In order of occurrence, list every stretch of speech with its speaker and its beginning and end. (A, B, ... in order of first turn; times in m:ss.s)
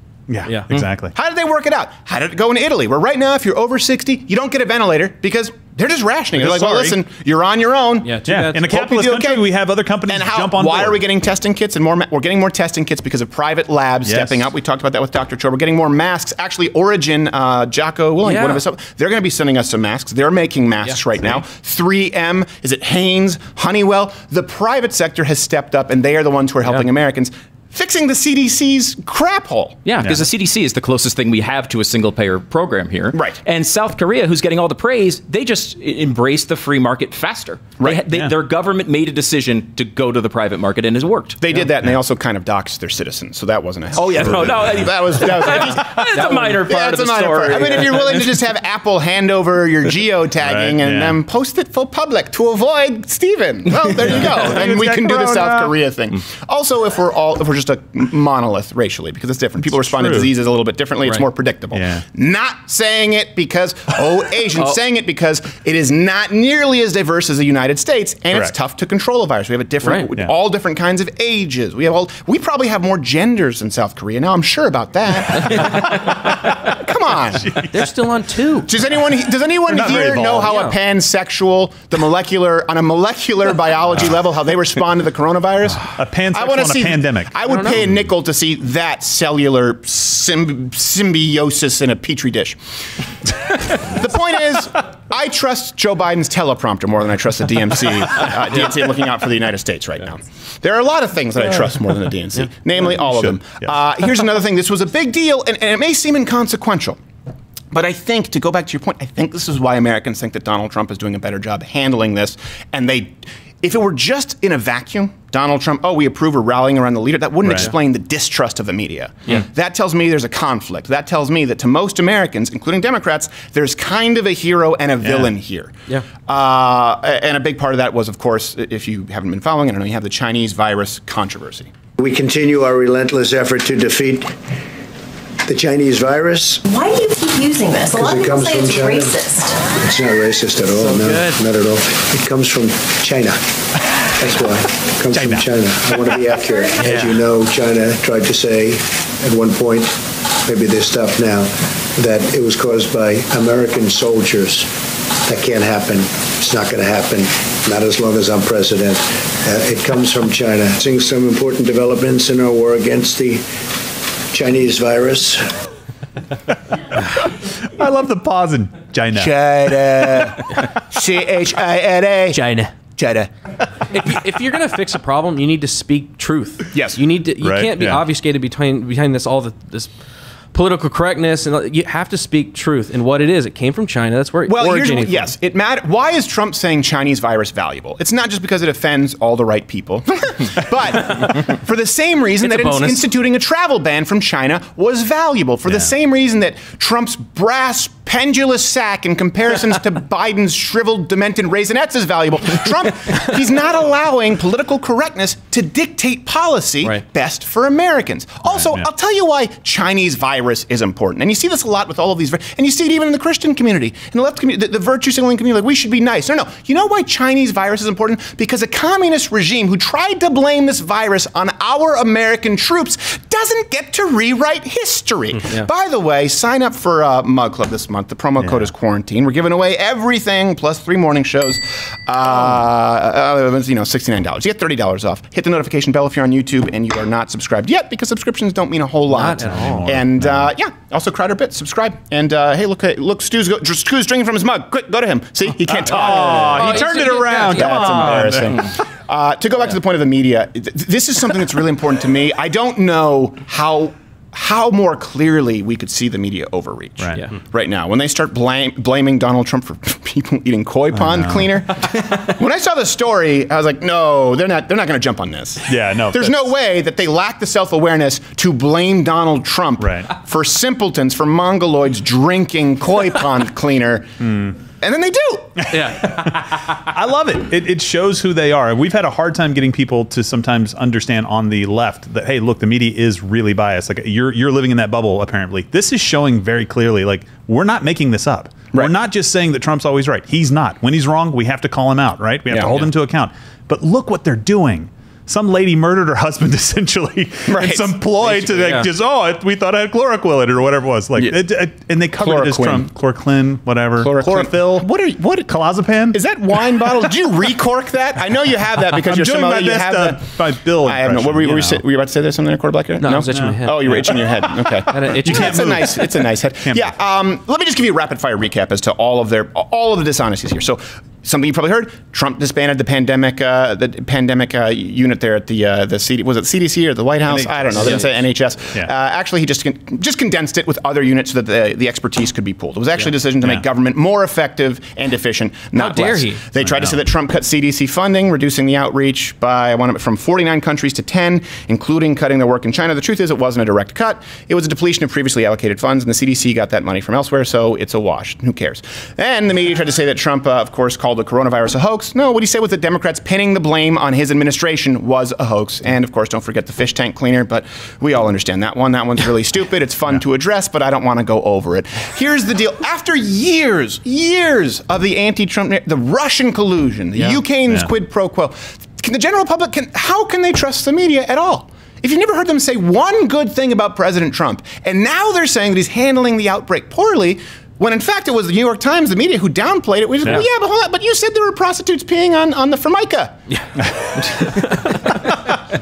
0:00.3-0:01.1 A
0:01.1-0:09.5 B
0:06.3-0:07.0 A
0:08.0-0:08.6 C
0:08.2-0:11.0 A
0:10.1-0:29.8 B
0:14.0-0:14.5 A
0:18.2-0:18.6 C
0:29.8-0:41.4 D
0:33.1-0:33.4 B
0:41.4-1:17.6 B
0:44.0-0:48.2 D
0:44.2-0:44.9 A
0:46.2-0:46.5 C
0:50.4-0:51.2 A
0:53.8-0:55.8 A
0:59.6-1:00.3 A
1:01.7-1:02.0 A
1:15.4-1:16.4 A
1:17.3-1:17.9 A
1:17.7-1:18.7 C
1:18.7-1:32.6 B
1:19.7-1:20.6 A
1:20.5-1:20.8 C
1:23.9-1:24.2 A
1:25.7-1:28.1 A
1:27.5-1:27.8 C
1:33.7-1:47.0 B
1:42.8-1:43.7 A
1:47.7-2:05.7 B
1:57.4-1:57.7 A
2:05.0-2:05.3 A
2:06.2-2:11.7 B
2:12.0-2:14.4 E
2:15.4-2:16.6 E
2:16.6-2:19.6 F
2:17.9-2:19.2 E
2:19.7-2:23.4 E
2:20.8-2:21.4 C
2:24.2-2:43.5 E
2:25.1-2:25.4 A
2:26.6-2:26.9 F
2:26.8-2:27.2 C
2:44.3-2:45.5 E
2:47.4-2:50.1 A
2:49.1-2:52.4 B
2:52.3-2:52.7 C
2:53.0-2:53.3 B
2:53.9-2:59.9 C
2:56.7-2:57.0 B
2:57.4-2:58.0 A
3:00.5-3:05.3 C
3:04.5-4:34.2 B
3:12.4-3:13.1 C
3:15.7-3:15.9 A
3:28.5-3:28.9 A
3:48.4-3:48.7 A
3:59.1-4:00.0 C
3:59.7-4:00.5 A
4:05.7-4:08.7 A
4:05.8-4:08.4 C
4:17.0-4:17.2 A
4:20.9-4:21.6 A
4:25.7-4:26.5 A
4:29.8-4:30.1 A
4:34.2-4:34.6 A
4:34.8-4:35.8 B
4:35.7-4:36.8 C
4:36.3-5:04.9 A
4:52.5-4:52.9 B
4:57.5-4:58.8 B
4:58.6-4:58.9 C
5:01.2-5:01.4 B
5:02.1-5:02.9 B
5:04.0-5:05.6 B
5:05.5-5:06.2 A
5:06.1-6:23.4 B
5:08.9-5:11.8 A
5:13.0-5:14.2 C
5:13.3-5:17.0 A
5:14.9-5:16.0 C
5:27.2-5:28.2 A
5:27.8-5:28.0 C
5:35.8-5:36.4 C
5:36.6-5:37.0 A
6:24.3-6:25.1 C